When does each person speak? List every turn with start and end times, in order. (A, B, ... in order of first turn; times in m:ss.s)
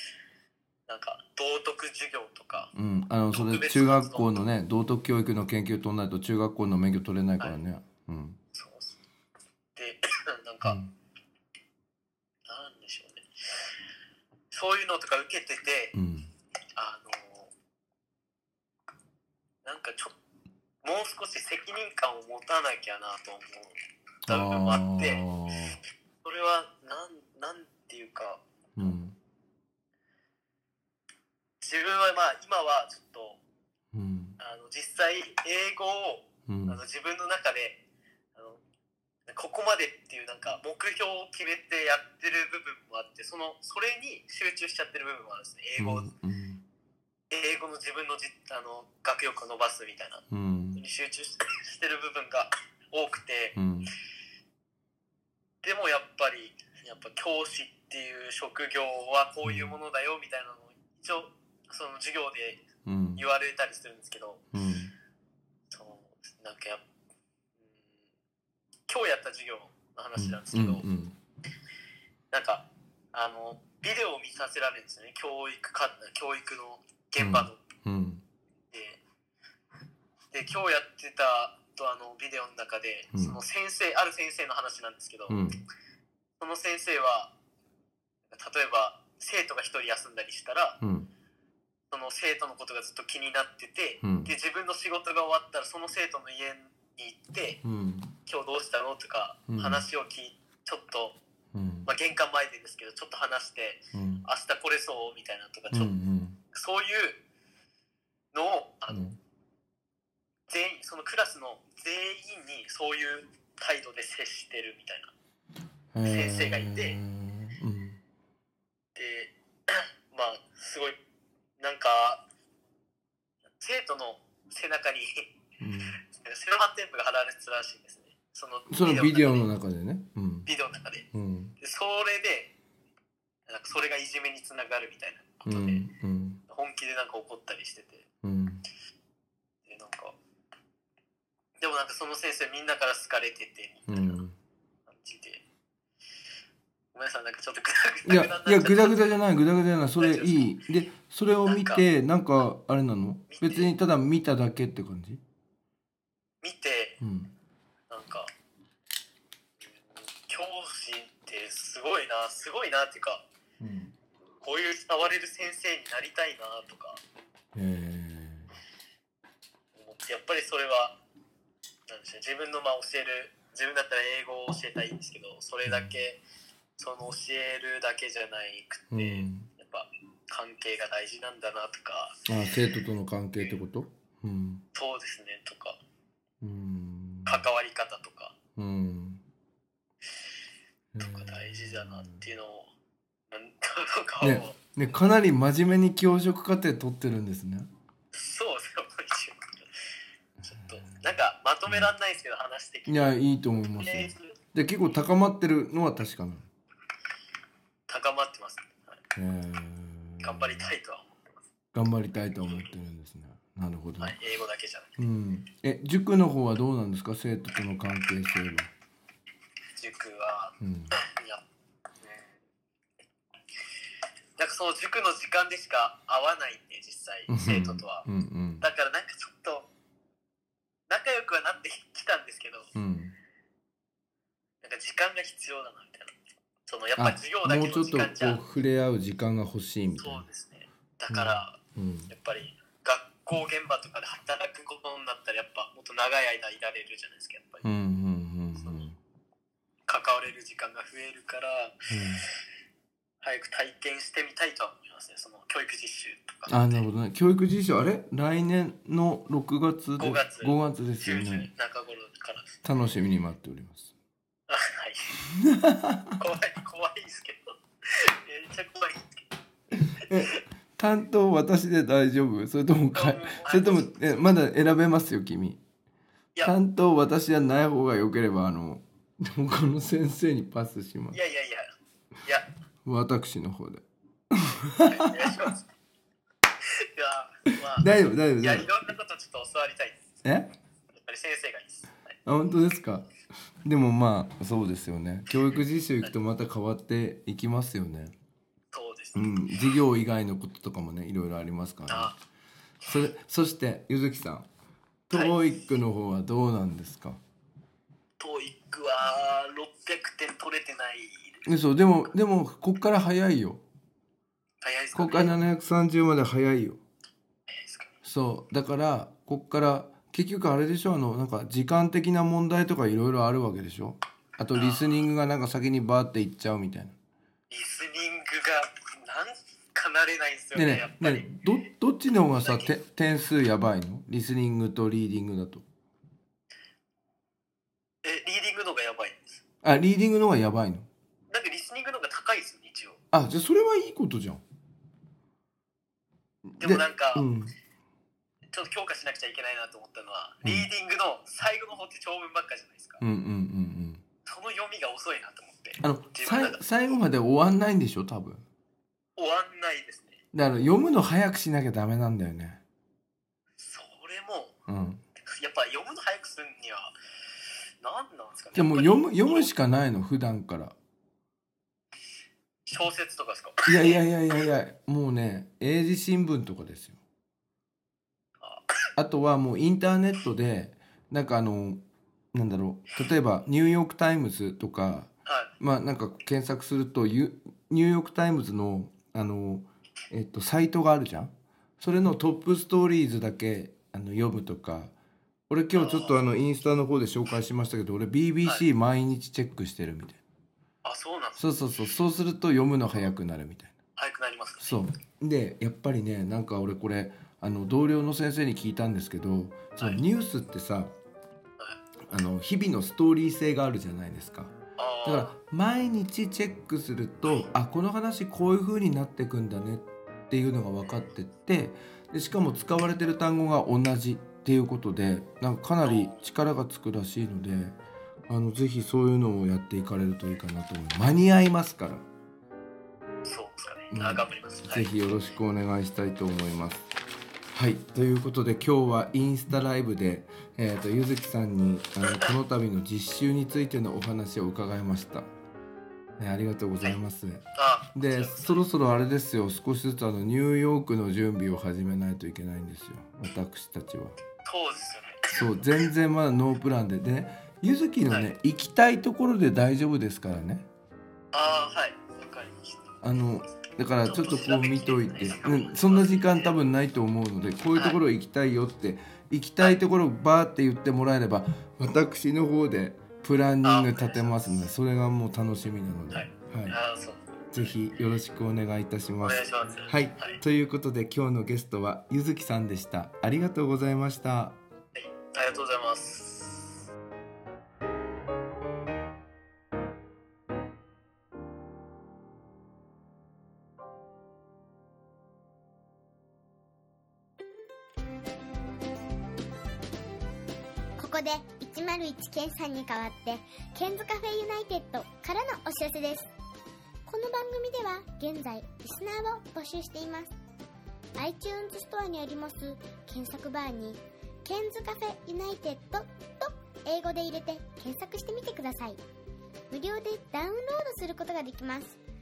0:00.9-0:02.7 A
0:02.7-0:08.4 B
0:03.3-0:04.3 A
0:08.5-0:09.0 A
0:09.7-0:10.8 A
0:10.6-0:10.9 B
0:12.5-0:13.7 A
0:14.5-0:15.9 A
0:15.9-0:16.3 B
0:16.8-0:17.5 A
0:19.6-0:20.1 A
0:20.8-0:23.7 A
0:24.2-0:25.2 A
0:24.3-0:25.8 B
0:26.2-0:28.9 A
0:28.8-0:29.2 B
0:31.6-0:33.4 A
0:33.9-0:34.4 B
0:34.4-0:37.8 A
0:36.5-0:36.8 B
0:38.3-0:38.6 A
0:39.3-0:46.1 A
0:45.8-0:46.6 B
0:47.3-0:50.2 A
0:50.3-0:50.8 B
0:50.7-0:53.6 A
0:53.5-0:53.9 B
0:55.6-1:02.6 A
0:59.4-0:59.7 B
1:02.8-1:03.2 B
1:03.2-1:04.4 A
1:04.5-1:04.9 B
1:05.7-1:06.8 A
1:08.9-1:10.8 A
1:10.2-1:11.2 B
1:12.3-1:17.6 A
1:17.2-1:18.2 B
1:18.7-1:19.0 A
1:20.3-1:25.4 A
1:23.1-1:23.4 B
1:25.3-1:25.6 B
1:26.4-1:27.3 A
1:28.3-1:30.8 A
1:30.8-1:31.1 B
1:31.9-1:37.6 A
1:34.0-1:34.3 B
1:37.6-1:38.1 B
1:38.2-1:41.2 A
1:39.5-1:39.8 B
1:41.5-1:41.9 B
1:41.8-1:45.9 A
1:43.9-1:44.2 B
1:45.7-1:46.4 B
1:46.5-1:47.2 A
1:48.3-1:49.1 A
1:48.9-1:49.2 B
1:50.5-1:55.1 A
1:55.9-1:58.0 B
1:56.0-1:57.0 A
1:58.9-2:01.0 A
2:01.6-2:02.2 A
2:03.6-2:05.2 A
2:05.6-2:06.0 B
2:06.0-2:09.5 A
2:08.7-2:10.5 B
2:10.4-2:11.1 A
2:11.1-2:11.5 B
2:11.6-2:12.5 A
2:13.5-2:15.9 A
2:15.4-2:16.4 B
2:16.5-2:18.0 A
2:18.2-2:18.6 B
2:19.6-2:20.1 A
2:21.6-2:24.2 A
2:23.8-2:24.4 B
2:24.9-2:25.4 A
2:26.9-2:29.1 A
2:28.0-2:35.2 B
2:30.0-2:30.4 A
2:31.4-2:31.8 A
2:33.3-2:33.7 A
2:36.4-2:37.0 A
2:37.0-2:37.3 B
2:37.9-2:38.3 A
2:40.2-2:43.2 A
2:43.6-2:43.9 B
2:44.4-2:47.0 A
2:47.5-2:48.5 B
2:49.7-2:50.9 A
2:51.9-2:56.2 A
2:55.6-2:55.9 B
2:56.8-3:02.2 A
2:58.9-2:59.5 B
3:02.3-3:04.6 B
3:04.7-3:05.8 A
3:06.4-3:07.4 B
3:07.2-3:08.3 A
3:08.6-3:09.2 B
3:10.9-3:12.2 B
3:11.0-3:12.7 A
3:13.3-3:14.9 A
3:14.2-3:17.7 B
3:18.1-3:19.7 A
3:20.4-3:23.1 A
3:22.9-3:26.5 B
3:23.8-3:24.4 A
3:27.9-3:29.0 A
3:29.1-3:30.7 B
3:30.2-3:31.2 A
3:31.7-3:34.2 B
3:32.4-3:32.7 A
3:34.0-3:35.0 A
3:35.0-3:38.7 B
3:39.8-3:41.4 A
3:40.6-3:40.9 B
3:42.0-3:42.3 A
3:44.4-3:48.0 A
3:47.3-3:48.7 B
3:48.6-3:49.7 A
3:50.9-3:52.7 A
3:52.7-3:53.1 B
3:54.6-3:58.4 A
3:57.0-4:00.2 B
4:00.0-4:01.6 A
4:01.1-4:02.1 B
4:02.1-4:07.6 A
4:07.6-4:09.0 B
4:08.6-4:08.8 A
4:09.9-4:11.9 A
4:11.9-4:12.2 B
4:13.2-4:16.8 A
4:16.5-4:21.5 B
4:20.0-4:22.6 A
4:22.6-4:23.9 B
4:24.5-4:25.2 A
4:25.3-4:26.2 B
4:26.2-4:29.2 A
4:29.7-4:30.4 A
4:29.9-4:35.6 B
4:32.9-4:34.4 A
4:36.4-4:41.2 B
4:41.1-4:41.7 A
4:42.8-4:45.4 B
4:44.8-4:45.6 A
4:46.6-4:50.0 A
4:47.8-4:48.7 B
4:50.2-4:50.5 B
4:51.0-4:52.2 A
4:52.2-4:53.1 B
4:53.6-4:58.1 B
4:58.7-4:59.2 A
4:59.1-5:02.1 B
5:01.9-5:02.2 A
5:02.8-5:04.5 B
5:05.1-5:07.2 B
5:05.1-5:05.4 A
5:08.2-5:11.4 A
5:11.4-5:13.6 B
5:14.6-5:15.4 A
5:14.9-5:16.8 B
5:17.5-5:17.9 A
5:18.0-5:26.9 B
5:24.5-5:25.1 A
5:27.5-5:31.3 A
5:30.5-5:35.6 B
5:32.3-5:32.7 A
5:38.0-5:39.4 A
5:39.6-5:40.9 B
5:41.3-5:43.0 A
5:43.1-5:44.4 B
5:46.5-5:47.5 B
5:46.6-5:47.3 A
5:48.5-5:53.0 A
5:53.0-5:54.0 B
5:54.2-5:56.6 A
5:55.8-5:58.4 B
5:59.2-6:00.2 A
6:00.3-6:02.6 B
6:03.6-6:04.5 A
6:04.7-6:05.0 B
6:05.3-6:06.9 A
6:07.8-6:09.5 A
6:08.5-6:10.7 B
6:12.7-6:14.0 A
6:13.7-6:17.0 B
6:18.4-6:18.7 A
6:19.0-6:21.8 B
6:22.3-6:34.9 B
6:35.5-6:40.2 B
6:35.8-6:36.2 A
6:40.8-6:41.4 A
6:41.4-6:43.7 B
6:44.0-6:44.8 A
6:44.6-6:50.9 B
6:52.1-6:54.5 B
6:54.8-6:55.4 A
6:55.0-7:07.8 B
7:05.8-7:06.3 A
7:08.3-7:12.0 B
7:13.2-7:14.9 A
7:13.9-7:16.9 B
7:17.5-7:25.3 B
7:26.2-7:34.2 B
7:27.5-7:28.6 A
7:34.4-7:35.7 A
7:35.3-7:40.6 B
7:41.3-7:43.0 A
7:43.0-7:56.8 B
7:44.0-7:46.5 A
7:53.6-7:54.6 A
7:56.1-7:57.7 A
7:57.5-8:04.6 B
7:59.2-8:00.4 A
8:04.9-8:06.8 A
8:21.0-8:26.3 C
8:27.0-8:30.3 C
8:31.2-8:39.0 C
8:39.7-8:42.0 C